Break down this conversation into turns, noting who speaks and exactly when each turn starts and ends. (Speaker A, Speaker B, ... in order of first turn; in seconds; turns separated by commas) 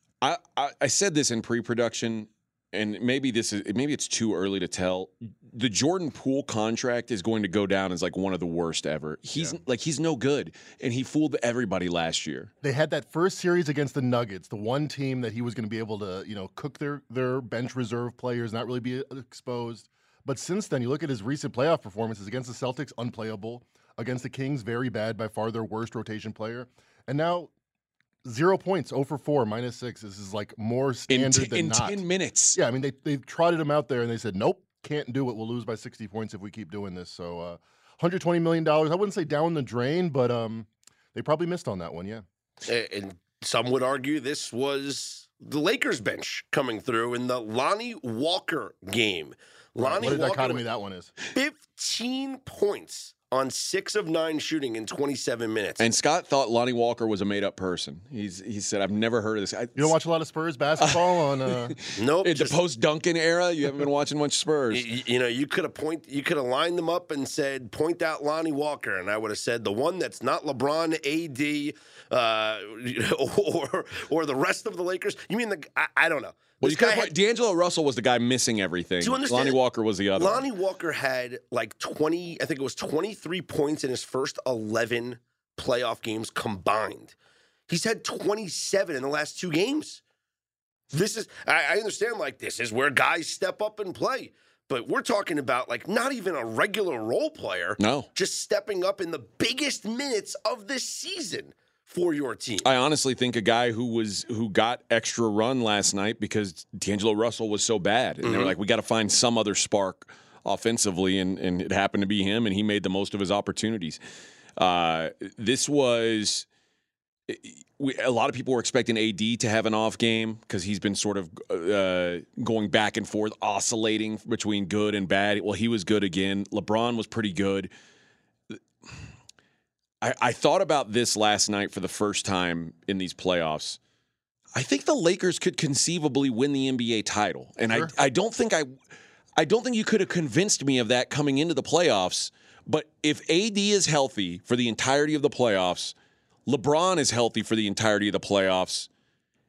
Speaker A: 0.2-12.5, Speaker B: 12.6-27.5, Speaker B: 28.2-32.0, Speaker A: 31.1-32.6, Speaker B: 32.6-42.2, Speaker C: 42.6-50.6, Speaker B: 49.8-51.1, Speaker C: 51.2-55.9, Speaker A: 55.8-60.0, Speaker B: 59.8-61.8, Speaker A: 60.8-64.9, Speaker C: 61.9-62.6, Speaker C: 64.7-77.1, Speaker A: 76.6-80.5, Speaker C: 79.0-79.6, Speaker C: 80.2-87.2, Speaker C: 87.7-90.0, Speaker C: 90.9-102.7, Speaker A: 97.8-98.1, Speaker A: 102.6-114.0, Speaker C: 108.2-108.5, Speaker A: 114.6-116.5, Speaker A: 117.3-127.7, Speaker A: 130.0-133.8, Speaker A: 134.6-138.7, Speaker A: 139.4-145.9, Speaker A: 146.5-148.9